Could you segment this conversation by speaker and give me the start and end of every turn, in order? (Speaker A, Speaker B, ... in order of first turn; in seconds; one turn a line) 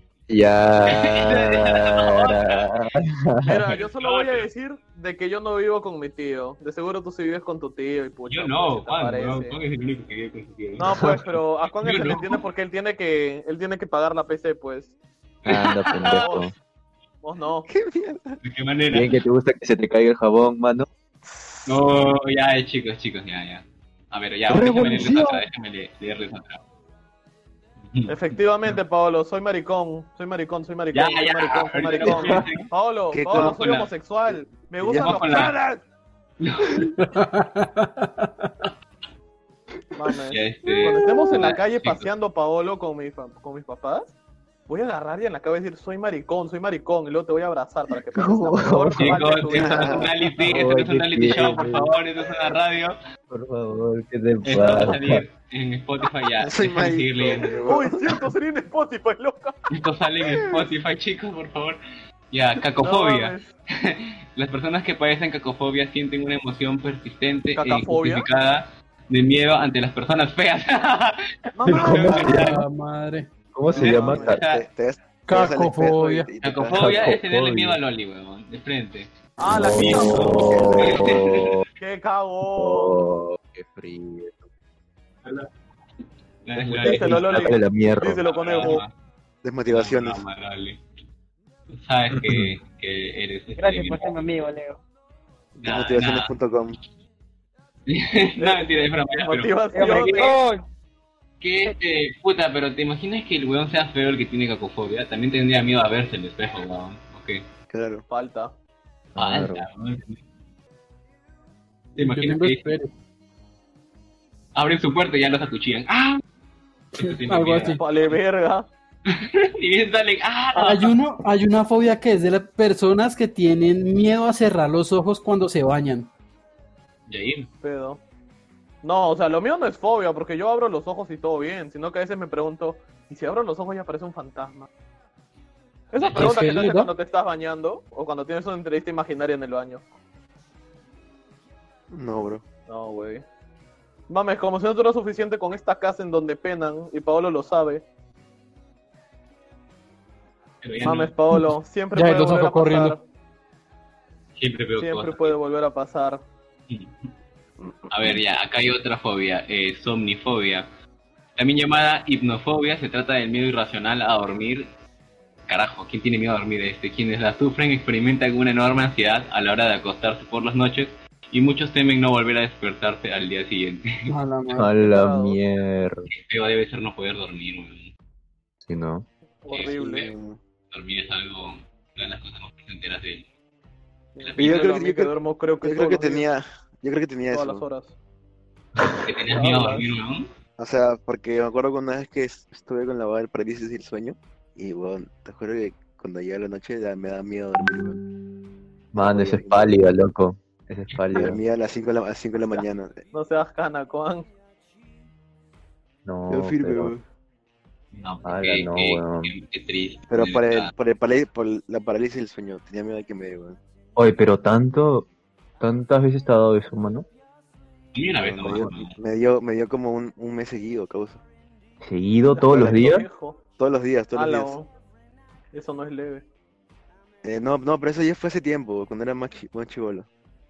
Speaker A: 0.3-3.7
Speaker B: 0.9-2.6
Speaker C: 3.5-9.6
Speaker B: 3.7-4.5
Speaker B: 8.3-11.1
Speaker C: 10.8-14.9
Speaker B: 11.8-12.4
Speaker B: 15.4-16.3
Speaker A: 15.4-16.5
Speaker C: 16.0-16.5
Speaker C: 17.2-17.7
Speaker D: 17.7-18.4
Speaker B: 18.4-19.1
Speaker A: 18.9-20.9
Speaker B: 21.7-26.6
Speaker A: 24.5-25.4
Speaker B: 27.8-28.4
Speaker C: 28.1-35.6
Speaker B: 30.9-32.7
Speaker D: 33.1-33.6
Speaker B: 33.3-33.9
Speaker D: 34.8-35.8
Speaker B: 35.0-35.5
Speaker B: 36.4-37.0
Speaker E: 37.0-38.5
Speaker C: 39.9-44.1
Speaker B: 40.3-42.1
Speaker C: 44.7-50.1
Speaker A: 48.1-49.2
Speaker B: 49.0-53.0
Speaker D: 49.5-50.1
Speaker A: 50.4-51.9
Speaker A: 53.3-55.2
Speaker B: 54.4-57.6
Speaker D: 54.6-54.9
Speaker D: 56.4-58.3
Speaker C: 57.6-59.6
Speaker B: 59.7-61.8
Speaker D: 60.2-60.6
Speaker B: 62.3-72.5
Speaker C: 62.8-63.5
Speaker C: 67.5-68.3
Speaker C: 71.5-72.6
Speaker A: 71.7-72.6
Speaker E: 72.1-73.3
Speaker A: 73.5-74.4
Speaker C: 73.7-74.4
Speaker B: 73.7-74.7
Speaker D: 74.1-77.1
Speaker E: 75.3-76.3
Speaker B: 76.4-79.1
Speaker A: 76.7-77.8
Speaker C: 79.4-81.0
Speaker A: 79.5-81.6
Speaker B: 79.7-81.6
Speaker D: 80.4-81.1
Speaker C: 81.8-83.0
Speaker A: 82.5-84.5
Speaker B: 85.2-85.5
Speaker B: 86.4-87.5
Speaker A: 86.7-88.2
Speaker C: 86.7-88.8
Speaker B: 88.2-88.9
Speaker D: 89.4-90.2
Speaker B: 89.7-90.8
Speaker B: 91.7-94.2
Speaker A: 92.2-92.5
Speaker F: 93.6-94.8
Speaker D: 95.5-96.8
Speaker B: 95.6-96.3
Speaker B: 97.9-100.3
Speaker C: 98.4-100.4
Speaker F: 99.7-100.6
Speaker B: 101.4-107.4
Speaker D: 107.7-108.0
Speaker C: 108.1-108.5
Speaker A: 109.1-109.7
Speaker B: 109.2-110.2
Speaker B: 112.0-112.7
Speaker E: 112.0-112.9
Speaker B: 114.5-116.2
Speaker B: 116.9-118.2
Speaker E: 117.0-117.8
Speaker C: 117.8-118.7
Speaker B: 119.1-120.9
Speaker E: 120.5-126.1
Speaker B: 127.1-127.5
Speaker C: 127.6-128.0
Speaker C: 128.8-134.7
Speaker C: 135.9-139.8
Speaker B: 136.0-136.4
Speaker E: 136.2-136.9
Speaker D: 141.9-142.4
Speaker C: 142.7-143.2
Speaker C: 144.1-147.8
Speaker B: 150.6-151.1
Speaker C: 150.8-153.0
Speaker E: 151.3-153.0
Speaker B: 154.4-155.3
Speaker C: 154.8-156.2
Speaker B: 156.7-157.1
Speaker B: 157.9-160.7
Speaker B: 161.4-164.7
Speaker B: 165.5-174.1
Speaker E: 174.1-174.7
Speaker A: 174.5-176.1
Speaker C: 174.8-175.4
Speaker B: 176.1-177.9
Speaker A: 178.6-179.1
Speaker C: 179.4-180.1
Speaker B: 179.5-179.8
Speaker D: 179.7-180.4
Speaker B: 180.7-183.3
Speaker C: 184.2-186.3
Speaker B: 184.2-184.6
Speaker D: 184.4-187.6
Speaker C: 187.3-187.9
Speaker B: 188.8-190.3
Speaker C: 189.3-189.9
Speaker D: 190.6-198.0
Speaker A: 197.6-197.9
Speaker A: 198.9-201.4
Speaker D: 198.9-199.8
Speaker D: 201.1-203.0
Speaker C: 203.1-204.3
Speaker A: 206.0-206.9
Speaker D: 206.3-207.0
Speaker B: 207.9-210.7
Speaker A: 208.2-209.3
Speaker D: 210.1-213.6
Speaker A: 213.9-215.1
Speaker A: 215.6-217.1
Speaker B: 217.9-219.0
Speaker D: 218.2-221.2
Speaker A: 221.8-223.1
Speaker C: 222.3-223.4
Speaker D: 222.5-223.0
Speaker D: 223.6-224.6
Speaker C: 224.1-224.7
Speaker C: 225.5-226.2
Speaker D: 227.2-230.1